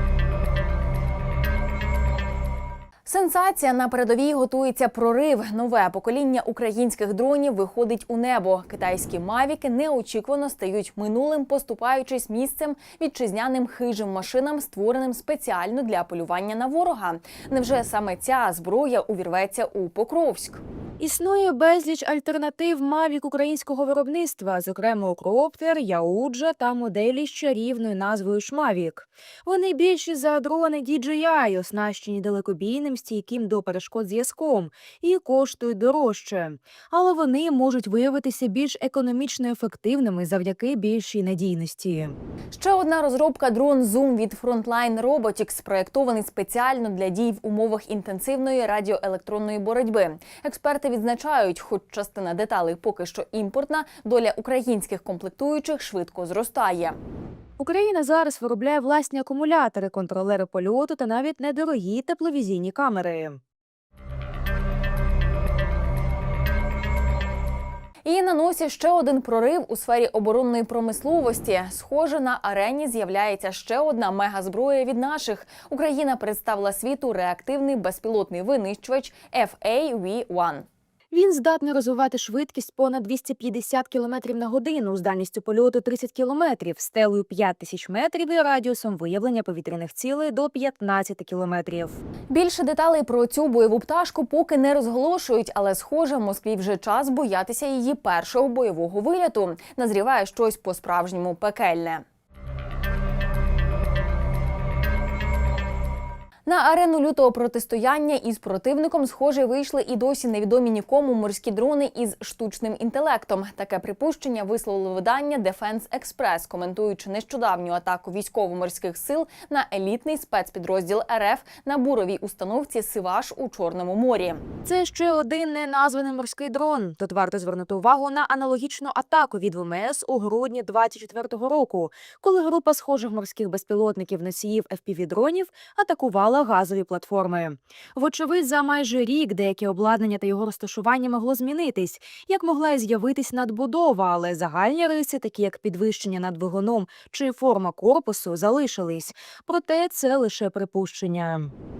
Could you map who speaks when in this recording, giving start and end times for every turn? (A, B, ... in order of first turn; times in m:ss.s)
0:03.0-0:20.6 A
0:21.0-0:42.2 B
0:42.5-0:57.0 A
0:57.6-1:03.4 B
1:08.0-1:20.6 A
1:21.1-1:32.0 B
1:32.3-1:42.0 A
1:46.4-2:04.4 A
2:04.6-2:31.5 B